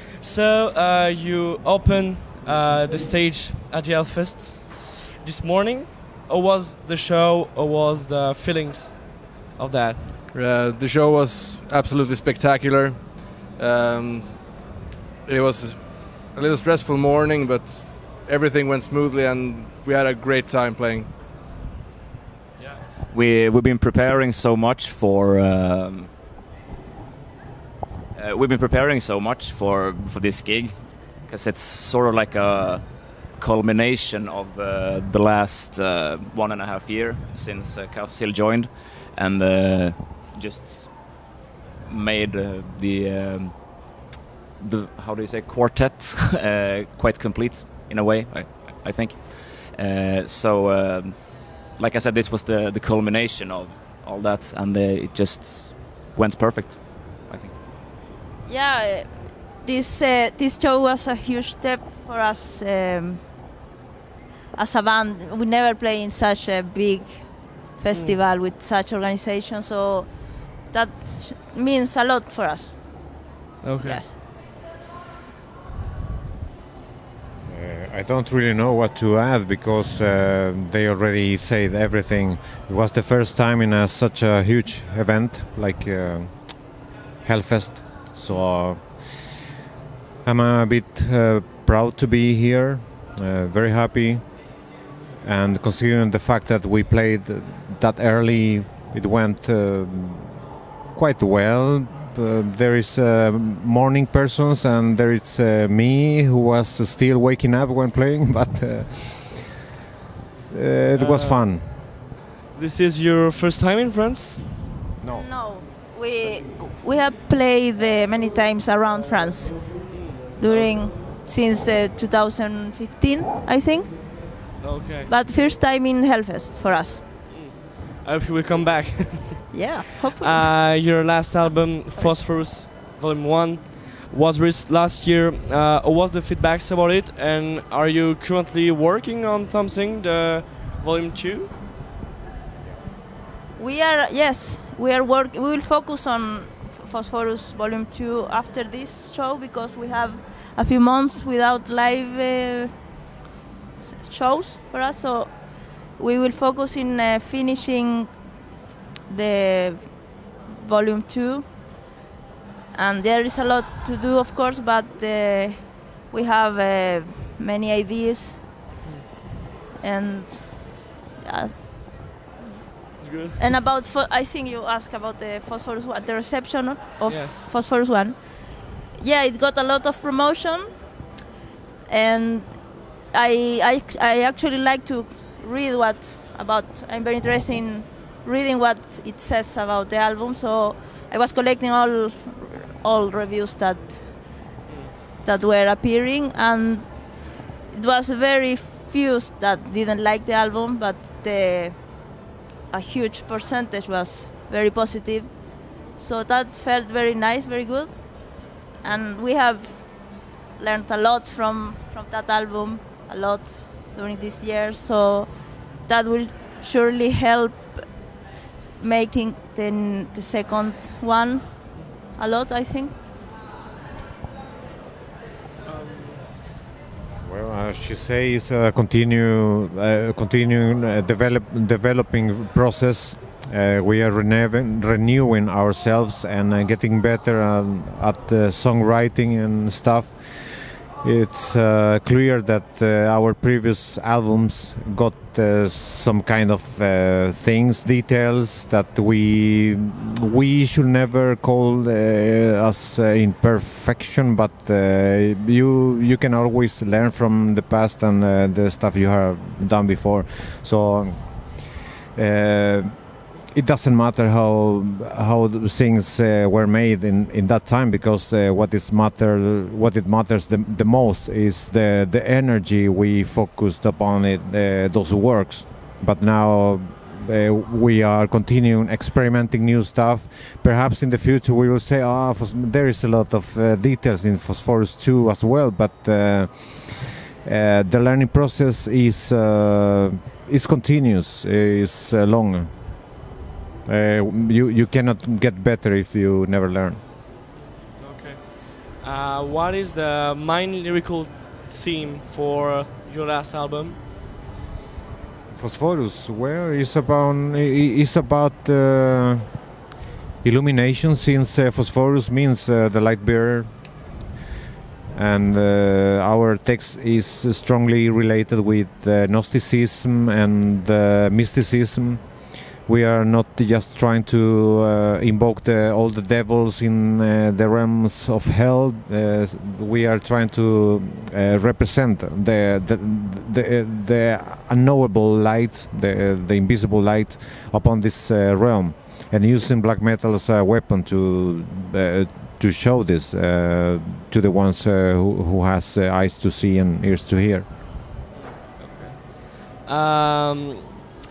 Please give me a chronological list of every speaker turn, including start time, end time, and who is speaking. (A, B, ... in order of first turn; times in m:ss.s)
0:00.2-0:10.1 A
0:10.3-0:21.1 B
0:23.1-0:26.1 C
0:28.1-0:41.3 C
0:41.8-0:43.9 C
0:44.6-0:57.6 C
0:58.4-1:03.2 D
1:04.5-1:12.8 D
1:07.9-1:08.2 A
1:13.6-1:14.0 A
1:13.8-1:14.2 D
1:17.5-1:29.4 E
1:30.2-1:34.6 E
1:35.2-1:49.6 E
1:50.5-1:51.7 E
1:50.9-1:51.8 A
1:52.5-1:54.6 A
1:55.0-1:55.3 E
1:55.1-2:04.2 D
1:59.9-2:00.8 A
2:04.6-2:05.1 A
2:05.1-2:07.1 D
2:07.3-2:09.7 A
2:09.5-2:10.9 D
2:10.2-2:21.6 A
2:11.5-2:12.4 D
2:23.6-2:32.8 D
2:33.8-2:38.2 D
2:39.1-2:41.5 D
2:42.7-2:48.4 D
2:49.8-2:52.1 D
2:53.0-2:53.4 A
2:53.4-3:00.8 D
2:57.0-2:57.5 A
3:01.9-3:14.4 D
3:14.6-3:14.9 A
3:15.2-3:17.2 D
3:17.7-3:22.0 D
3:22.7-3:25.4 D
3:25.9-3:38.1 D
3:38.8-3:43.0 D
3:45.6-3:46.3 A
3:47.2-4:53.1 E
4:53.8-4:57.0 E
4:57.9-5:04.0 A
5:05.5-5:09.6 E
5:10.4-5:14.0 E
5:15.1-5:47.8 E
5:48.3-5:51.0 A